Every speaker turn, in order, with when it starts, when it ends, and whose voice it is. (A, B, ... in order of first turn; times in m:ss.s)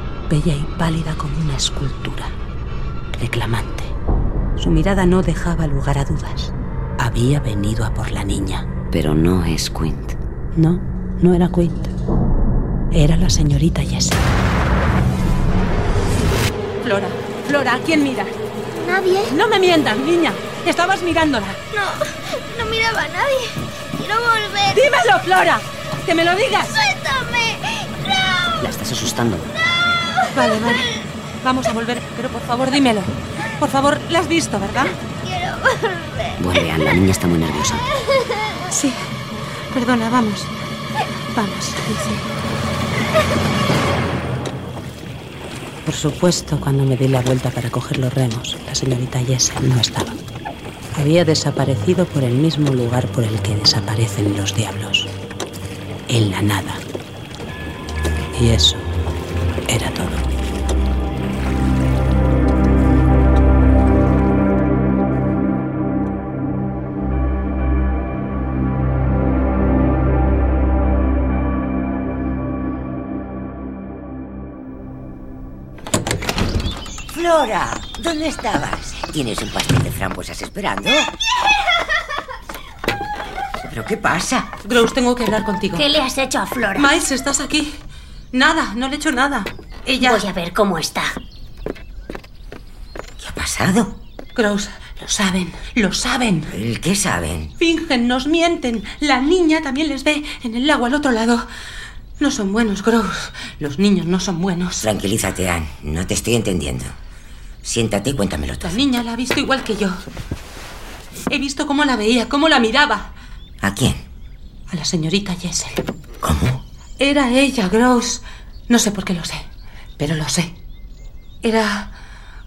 0:00.3-0:02.3 A
0:03.2-0:03.9 A
0:04.6-0:08.6 A
0:08.9-0:10.2 B
0:10.5-0:11.9 A
0:12.9-0:14.3 A
0:16.8-0:18.4 A
0:18.7-0:19.3 C
0:19.3-0:21.6 A
0:21.7-0:25.0 C
0:24.7-0:26.8 A
0:26.6-0:28.6 C
0:28.6-0:29.5 B
0:29.6-0:30.9 C
0:30.3-0:30.9 A
0:31.4-0:35.0 A
0:35.1-0:36.4 C
0:36.4-0:37.9 B
0:38.2-0:38.5 C
0:38.7-0:39.0 A
0:39.7-0:40.5 A
0:41.3-0:42.2 A
0:45.8-0:50.2 A
0:50.9-0:55.1 A
0:56.1-0:56.8 A
0:58.3-0:58.9 A
0:59.7-1:00.3 A
1:17.1-1:21.1 D
1:23.6-1:24.6 D
1:24.6-1:25.9 A
1:25.7-1:26.9 E
1:26.7-1:27.8 A
1:28.3-1:30.2 A
1:30.0-1:31.2 E
1:33.2-1:34.0 D
1:34.3-1:36.5 A
1:36.5-1:37.5 D
1:37.6-1:41.4 A
1:42.2-1:44.8 A
1:44.8-1:46.9 D
1:47.6-1:48.8 D
1:48.6-1:50.0 A
1:51.3-1:53.1 A
1:53.6-1:54.0 D
1:54.7-1:55.8 A
1:56.2-1:56.6 D
1:57.0-1:59.5 A
2:00.0-2:00.5 A
2:01.4-2:01.9 A